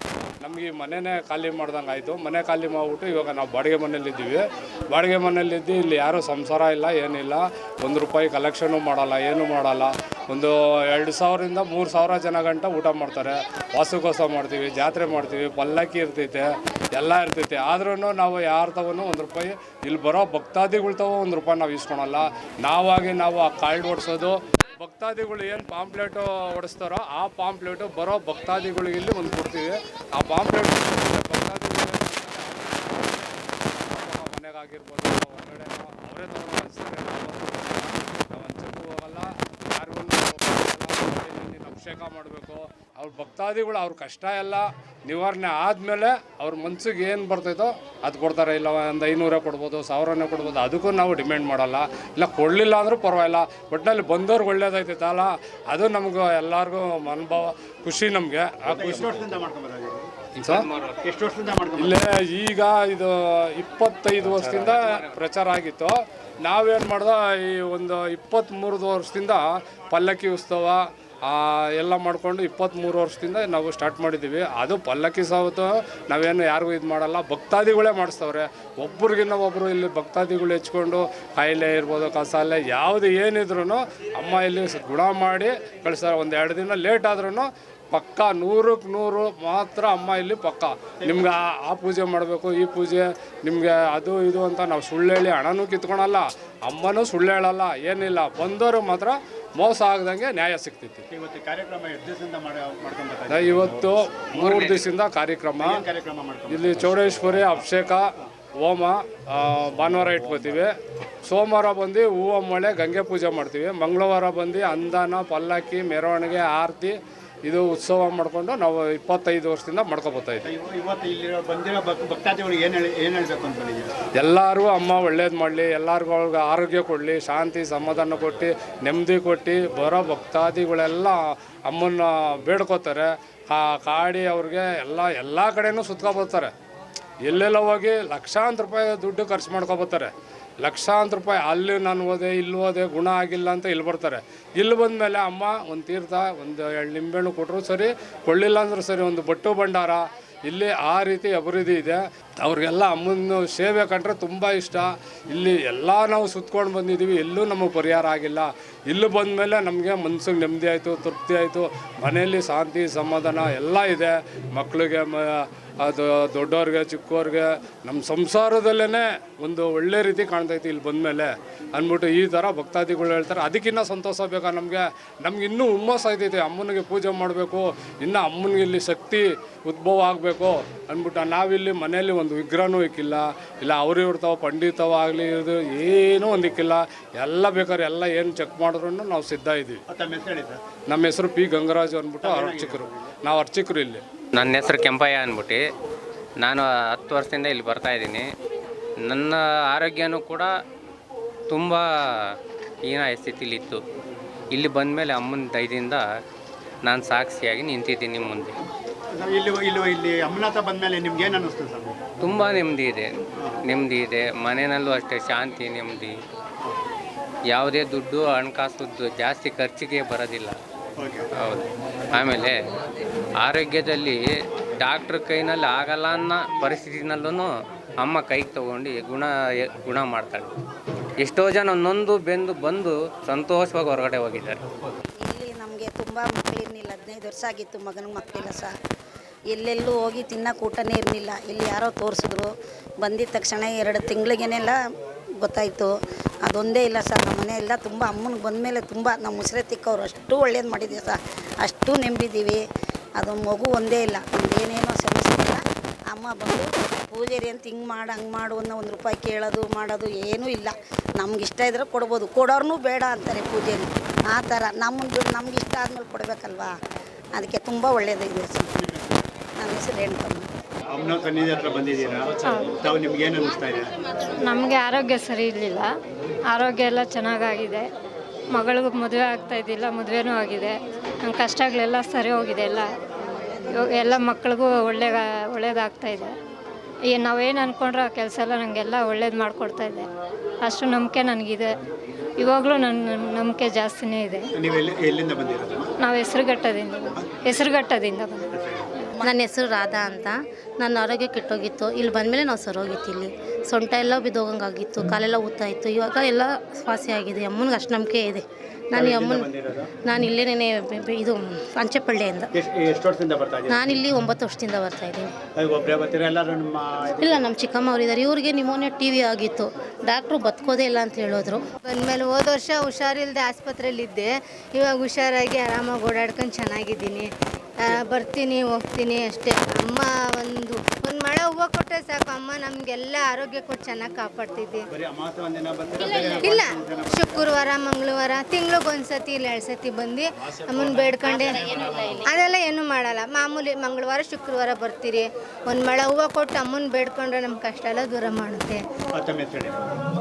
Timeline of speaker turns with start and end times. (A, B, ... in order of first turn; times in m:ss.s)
0:00.4-0:59.4 A
0:58.7-1:00.1 B
1:00.4-1:00.7 A
1:00.5-1:01.0 C
1:01.0-1:02.0 B
1:01.8-1:41.0 A
1:04.3-1:05.0 C
1:41.1-1:43.9 B
1:43.3-1:45.8 A
1:44.3-1:44.9 C
1:45.6-1:47.6 B
1:46.5-1:48.1 A
1:48.6-1:50.7 A
1:50.2-1:50.5 B
1:51.2-2:00.5 A
2:00.4-2:03.9 B
2:04.2-2:16.5 A
2:17.2-3:09.8 A
3:09.9-3:10.6 B
3:10.9-3:14.0 A
3:12.2-3:13.1 B
3:14.4-3:15.6 C
3:16.4-3:18.2 C
3:19.0-3:20.5 C
3:21.5-3:22.3 C
3:22.8-3:23.8 C
3:24.5-3:26.0 C
3:26.8-3:28.6 C
3:29.1-3:32.0 B
3:32.2-3:33.1 C
3:33.6-3:36.1 C
3:37.5-3:40.6 C
3:41.0-3:41.2 B
3:41.4-3:42.6 C
3:43.4-3:44.2 C
3:44.8-3:47.5 C
3:48.0-3:50.5 C
3:51.2-3:54.6 C
3:55.2-3:58.7 D
3:59.5-4:04.8 D
4:05.4-4:05.9 D
4:06.4-4:12.6 D
4:13.2-4:26.7 D
4:27.3-4:28.7 D
4:28.8-4:29.2 B
4:29.6-4:30.5 D
4:30.9-4:33.9 B
4:32.4-4:32.8 E
4:34.3-4:35.9 E
4:36.5-4:37.9 E
4:38.5-4:42.9 E
4:43.7-4:46.3 E
4:47.1-4:50.1 E
4:50.6-4:51.7 E
4:52.4-4:54.5 E
4:54.5-4:55.9 B
4:56.0-4:58.5 E
4:58.6-4:58.8 B
4:59.2-5:12.5 F
5:08.9-5:09.9 B
5:12.5-5:14.0 B
5:13.7-5:15.3 F
5:15.6-5:17.5 B
5:17.2-5:21.6 F
5:21.9-5:27.3 G
5:27.8-5:34.9 G
5:34.9-5:37.6 B
5:36.0-5:48.8 G
5:49.2-5:49.9 B